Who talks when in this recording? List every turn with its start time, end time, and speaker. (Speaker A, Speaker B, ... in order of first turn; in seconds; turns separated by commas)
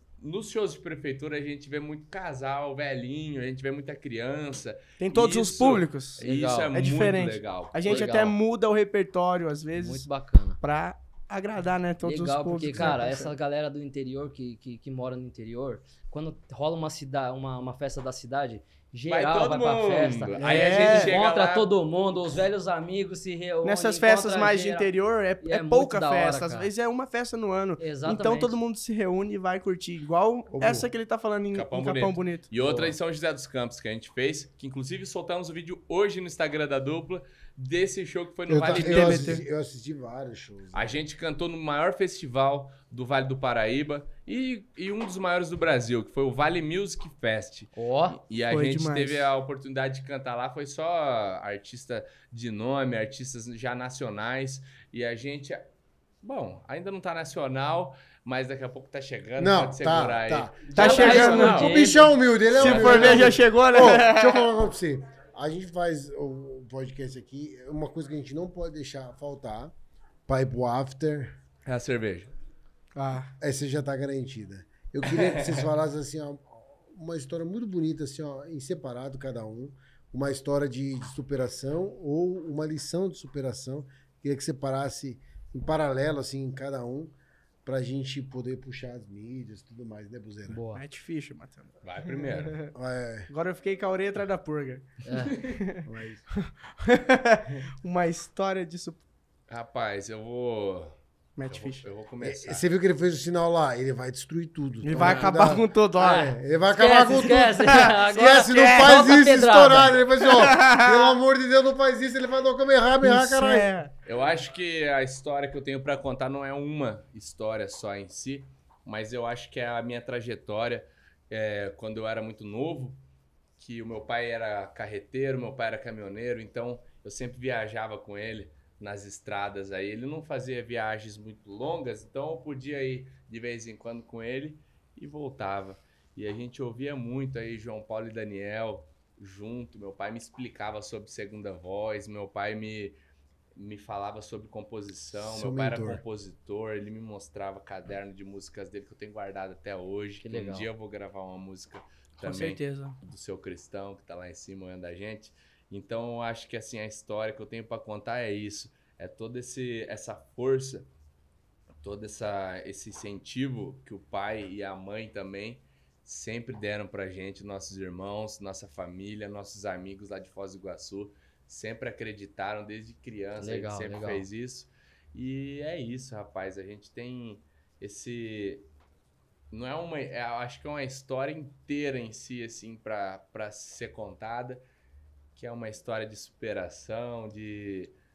Speaker A: 0.2-8.3, Speaker B: 5.0-10.1, Speaker C: 6.2-6.7, Speaker C: 7.9-8.3, Speaker C: 9.8-10.6, Speaker B: 10.6-13.3, Speaker C: 12.0-24.9, Speaker A: 19.1-21.7, Speaker B: 20.4-21.1, Speaker B: 23.6-32.5, Speaker C: 25.4-26.7, Speaker C: 27.8-28.6, Speaker D: 30.5-30.9, Speaker A: 31.5-39.4, Speaker C: 32.6-32.9, Speaker D: 38.5-40.9, Speaker B: 38.6-39.4, Speaker A: 40.7-55.6, Speaker C: 47.7-48.2, Speaker B: 48.5-49.3, Speaker A: 56.2-61.8, Speaker D: 59.4-69.7, Speaker B: 60.7-61.6, Speaker C: 60.7-62.1, Speaker B: 62.5-64.5, Speaker A: 62.5-63.4, Speaker D: 70.3-71.3, Speaker A: 71.6-72.3, Speaker B: 73.0-73.3, Speaker D: 73.4-87.1, Speaker A: 75.1-75.6, Speaker D: 87.7-90.6, Speaker C: 90.5-90.8, Speaker B: 90.7-92.7, Speaker A: 91.8-92.5, Speaker D: 92.7-93.3, Speaker B: 93.3-95.8, Speaker C: 95.0-95.3, Speaker D: 95.8-96.2, Speaker B: 96.4-99.0, Speaker A: 99.5-101.0, Speaker B: 101.4-101.8, Speaker A: 101.5-102.6, Speaker D: 102.2-113.7, Speaker B: 104.8-106.3, Speaker A: 104.9-105.5, Speaker C: 106.0-110.0, Speaker B: 107.2-109.0, Speaker B: 110.2-111.2, Speaker B: 113.0-113.9, Speaker A: 114.0-123.0, Speaker A: 123.6-143.0, Speaker A: 143.6-160.9, Speaker D: 145.1-146.0, Speaker C: 150.2-150.7, Speaker B: 152.2-153.0, Speaker A: 161.8-178.6, Speaker C: 173.4-174.2, Speaker A: 179.5-184.6, Speaker A: 185.3-187.9